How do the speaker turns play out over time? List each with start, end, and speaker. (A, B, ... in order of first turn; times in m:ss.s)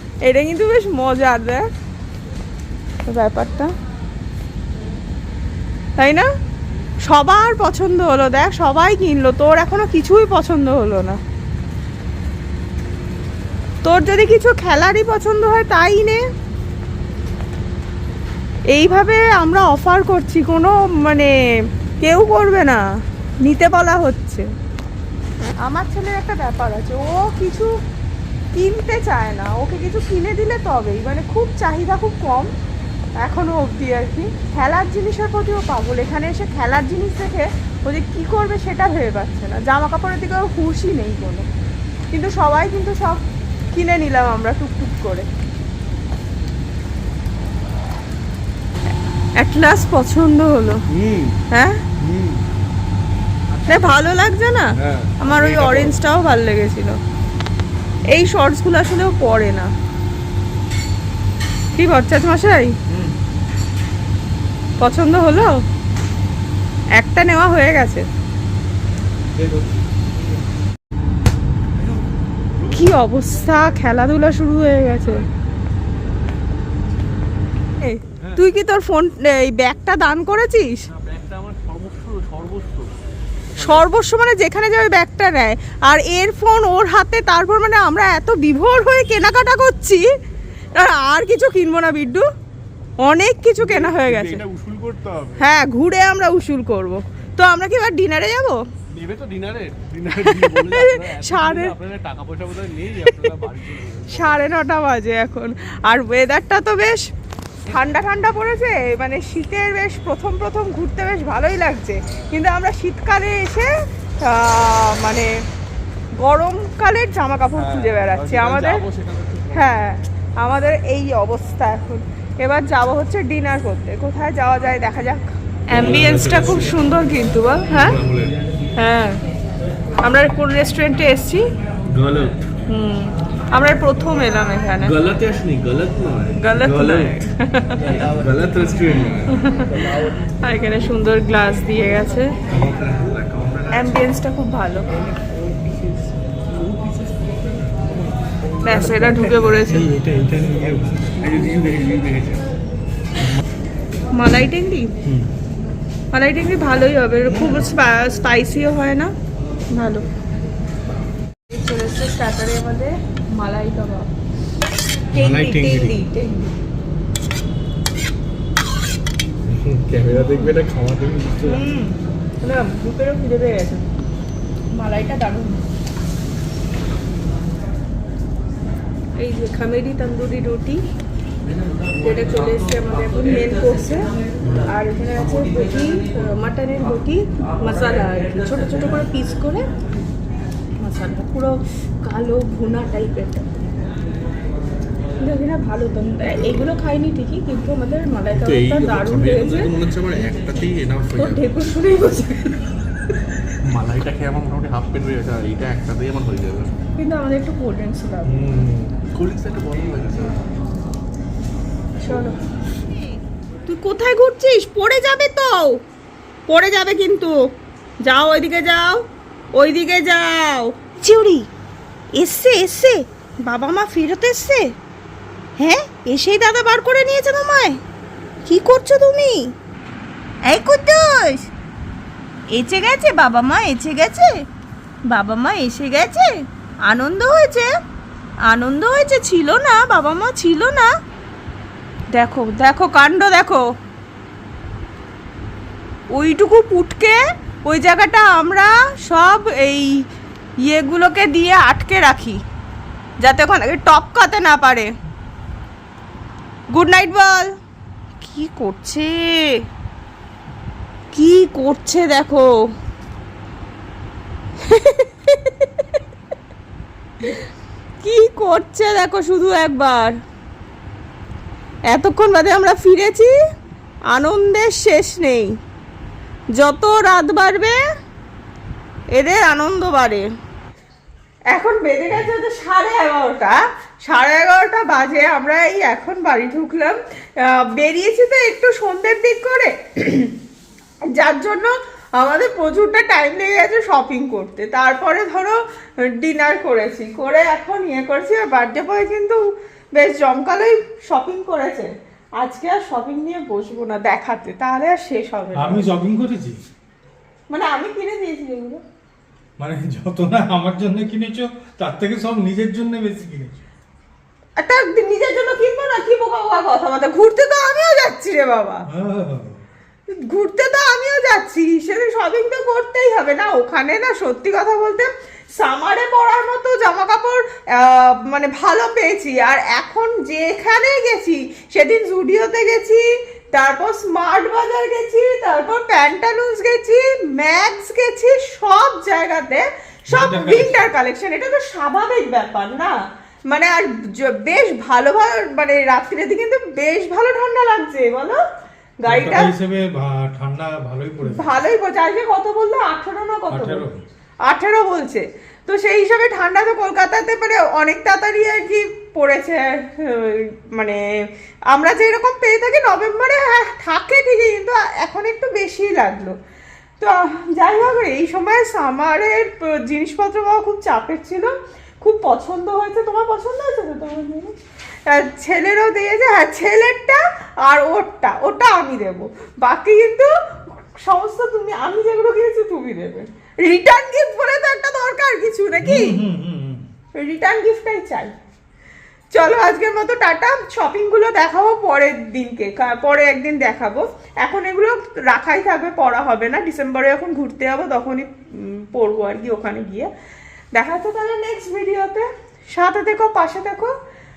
0:00.2-0:01.7 A
0:03.1-0:03.7 A
0:06.0-0:06.3 A
0:07.1-0:11.2 A
0:13.8-0:16.2 A
0:18.7-0:21.3 A
0:22.0-0:22.8 A
0:23.4-0:24.5 A
0:25.6-0:27.7 A
0:28.5-0:32.5 A
0:33.2-0:41.5 A
0:42.1-0:43.2 A
0:43.7-0:45.3 A
0:49.4-0:50.8 A
0:50.9-0:51.4 B
0:51.5-0:51.8 A
0:52.0-0:52.4 B
0:53.7-0:54.7 A
0:54.8-0:56.0 B
0:55.2-0:57.0 A
0:58.1-0:59.7 A
1:01.8-1:02.7 A
1:02.9-1:03.2 C
1:04.8-1:05.5 A
1:07.0-1:08.0 A
1:09.3-1:09.8 C
1:12.6-1:12.9 B
1:12.7-1:15.2 A
1:17.8-1:20.8 A
1:21.0-1:22.9 B
1:23.6-1:23.8 B
1:23.6-1:30.0 A
1:30.8-1:32.2 A
1:33.0-1:34.4 A
1:33.6-1:35.5 B
1:35.4-1:38.6 A
1:38.9-1:44.4 B
1:40.1-1:41.7 A
1:44.1-1:47.0 A
1:47.7-1:53.7 A
1:54.2-1:55.3 A
1:56.2-1:58.8 A
1:57.5-1:59.8 B
1:59.5-2:08.0 A
2:05.7-2:06.8 B
2:07.7-2:08.4 B
2:08.8-2:09.2 A
2:10.0-2:11.4 A
2:11.9-2:12.4 B
2:12.7-2:14.9 A
2:14.8-2:17.2 B
2:16.4-2:17.8 A
2:17.8-2:20.1 B
2:19.3-2:19.7 A
2:20.4-2:22.3 A
2:22.5-2:24.2 B
2:23.7-2:24.9 A
2:25.2-2:29.3 B
2:28.6-2:29.9 A
2:29.7-2:31.2 C
2:31.2-2:32.4 B
2:34.2-2:34.9 A
2:35.0-2:35.3 C
2:36.1-2:39.1 A
2:39.7-2:40.0 A
2:41.5-2:44.1 A
2:45.1-2:46.5 A
2:45.2-2:46.0 C
2:49.5-2:51.6 B
2:50.1-2:50.5 A
2:51.4-2:53.8 A
2:54.7-2:55.6 A
2:59.2-3:00.8 A
3:02.0-3:04.1 A
3:04.4-3:04.7 C
3:04.7-3:09.6 A
3:10.8-3:13.7 A
3:15.2-3:19.7 A
3:18.3-3:21.6 B
3:21.2-3:22.6 A
3:23.6-3:26.7 B
3:27.0-3:28.3 A
3:28.3-3:30.4 B
3:32.0-3:32.4 A
3:32.0-3:32.3 B
3:32.9-3:33.2 A
3:33.7-3:35.8 A
3:36.5-3:37.3 A
3:38.0-3:39.0 A
3:39.5-3:41.5 A
3:42.2-3:44.7 A
3:45.6-3:47.8 A
3:48.5-3:49.5 A
3:50.5-3:51.5 A
3:52.5-3:54.3 A
3:55.1-3:56.3 A
3:56.9-3:57.7 A
3:58.5-4:00.9 A
4:02.1-4:03.6 A
4:06.1-4:10.0 A
4:10.6-4:12.4 A
4:13.2-4:14.9 A
4:16.7-4:17.5 A
4:18.2-4:19.6 A
4:21.1-4:22.5 A
4:24.7-4:26.0 A
4:28.0-4:30.1 A
4:31.9-4:33.3 A
4:34.1-4:35.5 A
4:36.6-4:37.8 A
4:39.1-4:40.2 A
4:41.5-4:50.3 A
4:51.1-4:55.6 A
4:56.2-4:59.4 A
5:00.0-5:05.9 A
5:05.6-5:06.6 C
5:07.5-5:08.8 A
5:09.6-5:13.6 C
5:14.6-5:18.9 A
5:18.9-5:19.6 C
5:20.3-5:33.0 A
5:33.5-5:42.9 A
5:40.1-5:40.9 C
5:43.5-5:48.4 A
5:49.0-5:49.5 A
5:49.1-5:51.6 C
5:51.3-5:53.8 A
5:53.5-5:54.0 C
5:54.5-6:01.0 A
6:01.7-6:06.4 A
6:07.0-6:11.5 A
6:12.0-6:14.5 A
6:15.1-6:26.2 A
6:25.8-6:26.9 C
6:27.2-6:28.3 A
6:29.3-6:40.1 A
6:40.8-6:43.9 A